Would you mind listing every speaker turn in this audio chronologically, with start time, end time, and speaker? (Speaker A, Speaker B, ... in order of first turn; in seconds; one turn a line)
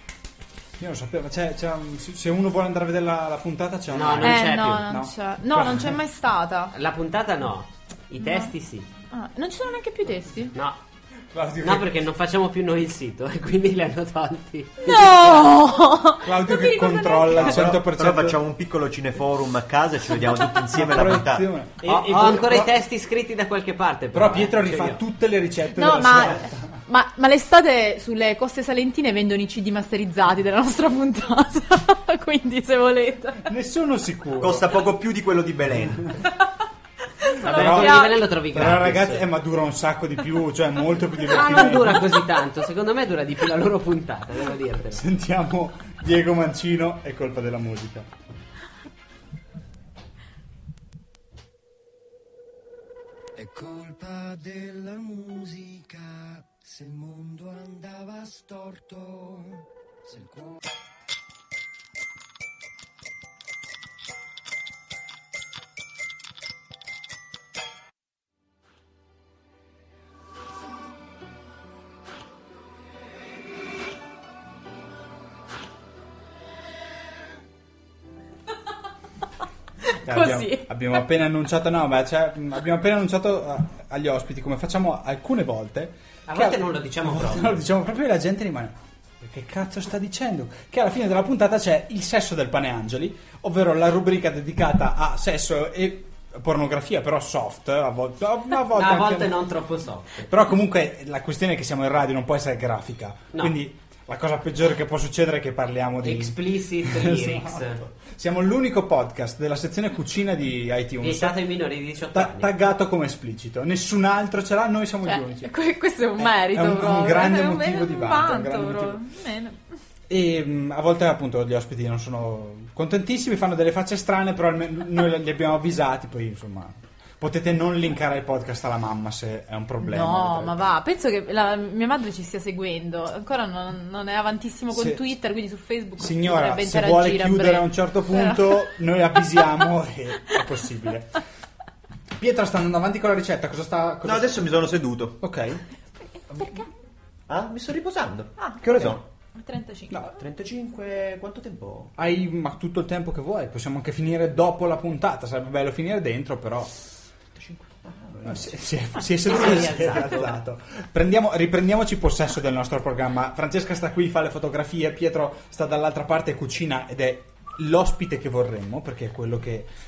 Speaker A: 0.8-6.0
Speaker B: 3.9-4.9
Speaker C: 4.2-6.7
Speaker B: 6.7-8.9
Speaker C: 8.2-8.5
Speaker C: 9.1-10.5
Speaker A: 11.3-11.9
Speaker B: 11.6-15.5
Speaker C: 14.8-17.6
Speaker A: 16.2-18.4
Speaker D: 17.3-21.4
Speaker A: 20.3-22.7
Speaker B: 21.8-25.0
Speaker A: 24.1-26.8
Speaker C: 25.7-33.5
Speaker A: 33.4-34.7
Speaker D: 34.4-36.1
Speaker C: 37.2-38.2
Speaker A: 37.4-42.2
Speaker B: 37.4-39.3
Speaker B: 41.2-45.0
Speaker A: 44.9-48.1
Speaker E: 53.4-60.6
Speaker C: 80.0-80.7
Speaker A: 80.0-99.3
Speaker B: 86.3-87.6
Speaker B: 98.7-100.3
Speaker A: 100.2-111.4
Speaker B: 106.0-107.8
Speaker B: 111.0-112.5
Speaker A: 112.0-115.5
Speaker C: 115.0-119.6
Speaker A: 116.2-119.0
Speaker A: 120.1-130.6
Speaker C: 129.8-138.7
Speaker A: 134.7-135.0
Speaker A: 136.0-141.2
Speaker A: 142.2-144.5
Speaker D: 144.0-145.2
Speaker A: 145.2-145.6
Speaker A: 146.3-146.6
Speaker C: 146.4-146.7
Speaker D: 147.3-149.0
Speaker A: 148.6-149.0
Speaker C: 149.3-150.1
Speaker D: 150.1-151.9
Speaker A: 151.9-156.7
Speaker D: 157.3-158.6
Speaker A: 158.2-169.7
Speaker B: 159.2-160.3